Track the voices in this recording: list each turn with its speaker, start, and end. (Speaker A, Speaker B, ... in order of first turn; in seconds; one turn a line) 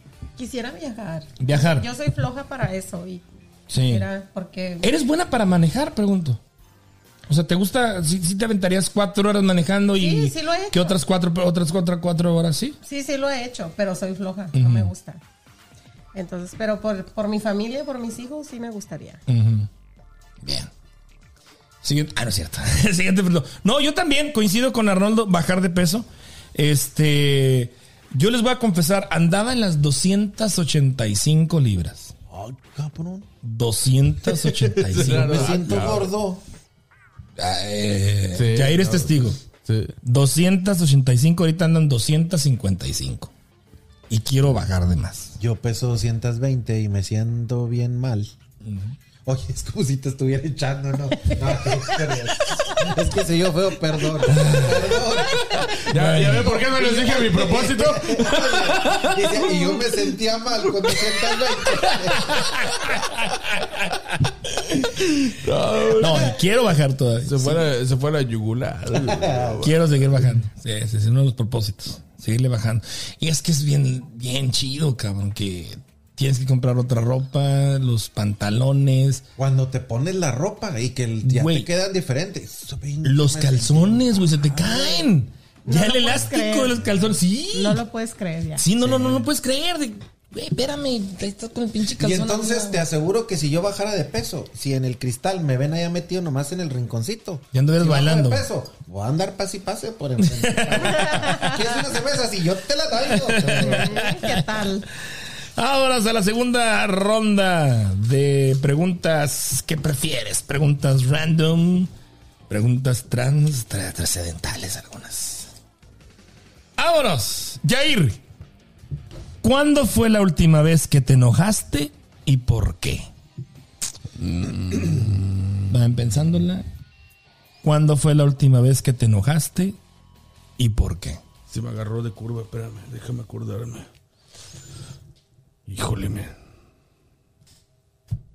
Speaker A: 0.4-3.2
Speaker B: 1.4-1.9
Speaker B: 3.7-4.0
Speaker A: 3.8-4.9
Speaker B: 4.8-6.4
Speaker B: 7.3-12.8
Speaker A: 10.0-10.9
Speaker A: 12.8-15.2
Speaker B: 14.5-14.9
Speaker A: 16.1-19.2
Speaker B: 19.3-19.7
Speaker B: 20.4-20.7
Speaker B: 21.8-32.1
Speaker C: 32.3-33.3
Speaker B: 33.4-36.0
Speaker C: 34.8-36.4
Speaker D: 34.9-36.1
Speaker B: 37.4-39.4
Speaker D: 38.3-39.9
Speaker B: 40.0-43.3
Speaker B: 44.1-45.4
Speaker C: 45.4-48.3
Speaker B: 48.6-49.0
Speaker C: 49.2-62.5
Speaker B: 54.2-55.1
Speaker B: 55.8-56.6
Speaker D: 55.9-59.8
Speaker D: 60.8-61.2
Speaker B: 62.1-64.1
Speaker D: 64.8-66.4
Speaker B: 66.0-67.7
Speaker D: 67.2-70.2
Speaker C: 69.0-69.7
Speaker B: 69.6-79.2
Speaker C: 79.4-85.1
Speaker B: 81.2-81.7
Speaker B: 83.0-87.8
Speaker A: 85.6-86.8
Speaker A: 87.5-88.6
Speaker B: 88.6-92.8
Speaker C: 88.8-89.3
Speaker C: 92.0-104.1
Speaker B: 97.5-98.4
Speaker B: 100.2-101.5
Speaker B: 103.1-104.4
Speaker A: 103.6-104.8
Speaker B: 105.5-111.9
Speaker B: 112.5-115.5
Speaker B: 116.8-118.2
Speaker B: 119.4-123.1
Speaker D: 124.2-125.7
Speaker B: 125.7-126.6
Speaker B: 127.6-129.8
Speaker B: 130.6-131.2
Speaker D: 131.5-133.9
Speaker D: 135.7-136.3